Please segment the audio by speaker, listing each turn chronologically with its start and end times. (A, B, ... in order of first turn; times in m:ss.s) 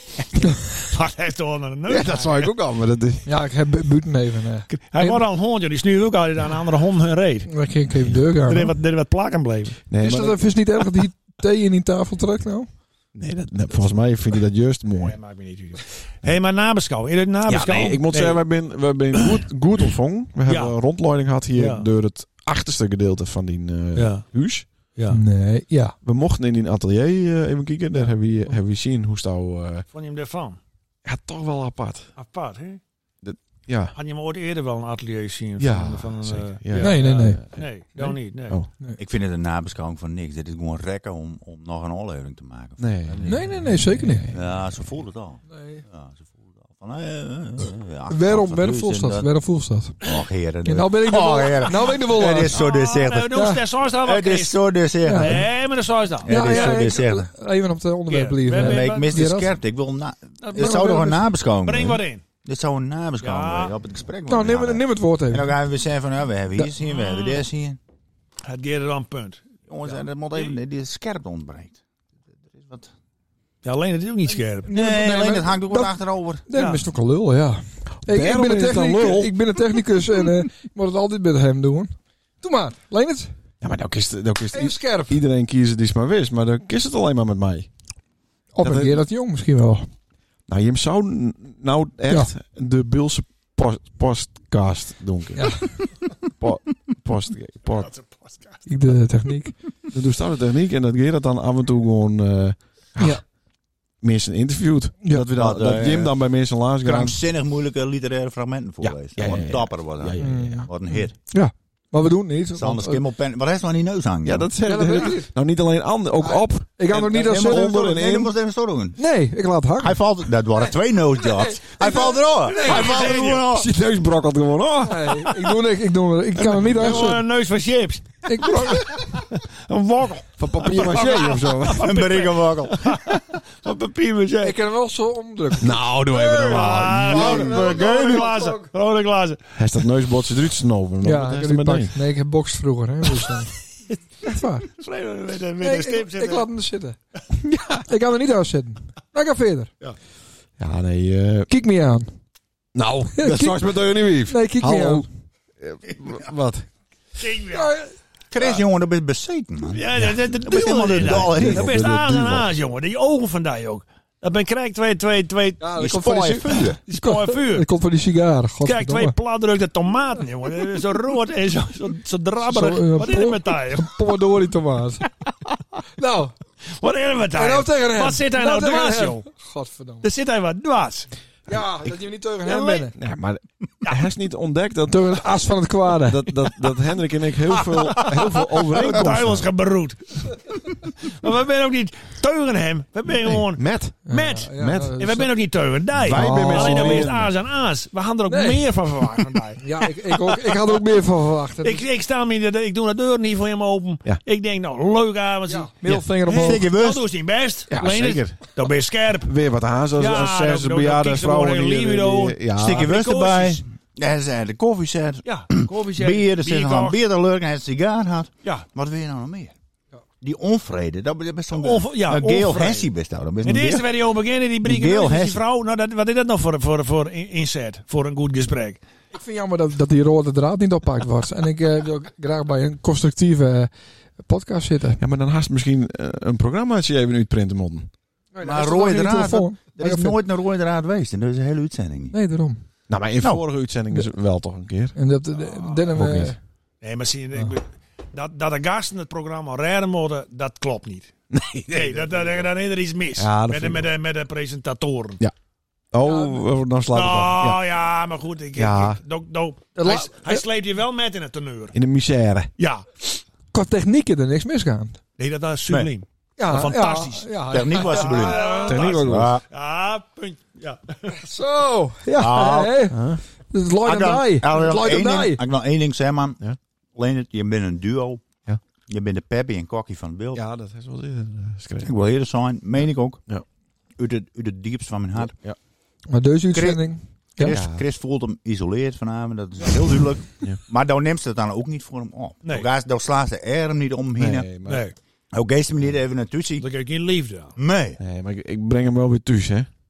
0:00.4-0:02.5 A
0:01.9-0:03.3 B
0:03.2-0:05.2 C
0:04.7-0:07.6 A
0:07.5-0:08.7 C
0:08.4-0:09.8 A
0:09.9-0:10.4 B
0:10.0-0:12.7 C
0:13.1-0:15.2 B
0:15.0-0:18.4 A
0:17.5-0:24.6 B
0:19.1-0:19.4 A
0:20.4-0:20.8 A
0:21.5-0:21.9 A
0:23.9-0:24.3 A
0:25.1-0:25.9 C
0:26.0-0:29.8 B
0:29.9-0:30.6 A
0:31.0-0:32.1 B
0:32.2-0:32.8 A
0:33.2-0:33.9 B
0:33.9-0:38.6 A
0:35.6-0:38.7 B
0:36.7-0:37.4 C
0:39.0-0:43.5 D
0:42.8-0:44.4 B
0:43.2-0:44.3 C
0:44.3-0:49.3 D
0:45.5-0:45.8 C
0:48.1-0:50.0 C
0:50.0-0:53.4 D
0:50.6-0:52.6 C
0:52.2-0:56.8 A
0:53.3-0:53.6 C
0:54.0-0:55.5 D
0:55.0-0:55.4 C
0:56.2-0:57.3 D
0:56.2-0:59.5 C
0:58.1-0:59.1 A
0:58.6-1:07.8 D
1:00.4-1:02.2 A
1:03.2-1:03.7 A
1:04.3-1:05.6 C
1:06.8-1:07.4 A
1:08.4-1:10.6 A
1:09.7-1:11.8 D
1:12.6-1:12.9 D
1:13.6-1:14.7 A
1:14.6-1:15.9 C
1:14.7-1:16.4 D
1:16.5-1:23.3 C
1:16.6-1:16.8 A
1:18.0-1:20.2 B
1:23.6-1:27.7 B
1:24.5-1:25.2 C
1:28.5-1:29.8 C
1:28.6-1:29.0 B
1:30.5-1:35.6 B
1:35.4-1:35.7 C
1:36.4-1:37.9 B
1:37.8-1:38.6 A
1:38.6-1:39.6 C
1:39.9-1:43.2 B
1:44.0-1:47.2 B
1:45.3-1:46.1 D
1:46.8-1:51.1 D
1:48.8-1:50.7 B
1:50.2-1:50.7 C
1:51.2-1:53.0 C
1:52.6-1:54.5 D
1:54.2-1:58.3 B
1:54.6-1:55.3 C
1:56.2-1:57.7 C
1:56.9-1:59.0 D
1:59.0-2:00.0 C
1:59.8-2:03.7 D
2:01.2-2:03.3 C
2:02.5-2:03.4 A
2:03.1-2:05.5 B
2:04.8-2:07.2 C
2:06.5-2:14.6 A
2:08.2-2:09.0 C
2:10.4-2:12.1 B
2:11.8-2:13.0 D
2:14.4-2:15.8 C
2:15.6-2:17.8 B
2:16.2-2:19.4 A
2:17.1-2:18.7 C
2:19.6-2:22.0 B
2:21.0-2:23.5 C
2:24.2-2:24.7 C
2:24.7-2:26.5 A
2:25.6-2:27.0 C
2:27.5-2:27.8 B
2:27.6-2:29.7 C
2:30.6-2:31.5 B
2:31.5-2:32.1 C
2:32.7-2:35.1 B
2:33.1-2:35.0 C
2:35.6-2:36.6 B
2:37.2-2:37.8 A
2:37.5-2:37.9 C
2:38.3-2:39.8 D
2:39.7-2:45.8 A
2:40.4-2:41.7 D
2:41.0-2:42.5 B
2:45.6-2:49.1 C
2:45.8-2:46.8 D
2:46.9-2:47.7 A
2:48.6-2:54.0 A
2:52.4-2:55.0 C
2:56.0-2:56.3 C
2:56.6-2:59.2 A
2:57.3-3:00.1 C
3:00.0-3:01.1 A
3:01.5-3:02.9 C
3:02.5-3:02.8 A
3:02.9-3:05.2 B
3:04.9-3:06.4 C
3:06.0-3:09.5 B
3:07.5-3:20.8 A
3:13.1-3:14.9 B
3:14.1-3:15.3 C
3:16.0-3:17.3 B
3:16.1-3:17.1 C
3:18.3-3:18.6 C
3:19.6-3:21.8 C
3:21.6-3:25.7 A
3:25.5-3:26.7 C
3:26.2-3:29.3 A
3:26.3-3:27.0 D
3:27.7-3:28.4 B
3:29.2-3:32.9 B
3:30.0-3:33.6 A
3:32.5-3:39.5 D
3:35.2-3:37.0 A
3:40.2-3:43.9 D
3:41.5-3:42.9 A
3:43.4-3:48.8 A
3:44.6-3:45.4 D
3:49.1-3:55.0 C
3:55.0-3:57.9 B
3:58.3-4:00.2 C
3:58.4-4:02.1 D
4:02.1-4:02.6 C
4:02.9-4:05.0 B
4:04.9-4:06.4 C
4:05.9-4:06.3 B
4:06.8-4:11.1 A
4:11.3-4:12.2 B
4:11.7-4:15.2 A
4:13.2-4:13.9 B
4:15.9-4:17.6 B
4:16.0-4:21.7 A
4:18.6-4:19.0 B
4:19.8-4:20.4 C
4:21.7-4:22.5 B
4:22.6-4:23.2 A
4:23.5-4:25.0 C
4:25.2-4:31.2 A
4:26.4-4:28.8 C
4:27.5-4:29.4 D
4:28.6-4:29.3 B
4:31.2-4:35.4 C
4:32.2-4:32.8 D
4:32.9-4:33.2 B
4:33.8-4:36.4 D
4:37.0-4:38.2 D
4:38.9-4:40.4 D
4:40.3-4:41.9 B
4:41.8-4:43.2 D
4:44.0-4:45.3 D
4:45.2-4:45.6 B
4:46.1-4:47.6 C
4:46.5-4:46.8 D
4:47.4-4:54.5 D
4:47.4-4:47.8 B
4:54.2-4:54.8 B
4:54.6-4:54.9 A
4:55.3-4:56.6 D
4:56.6-4:57.5 A
4:57.6-4:58.0 D
4:58.0-4:59.7 B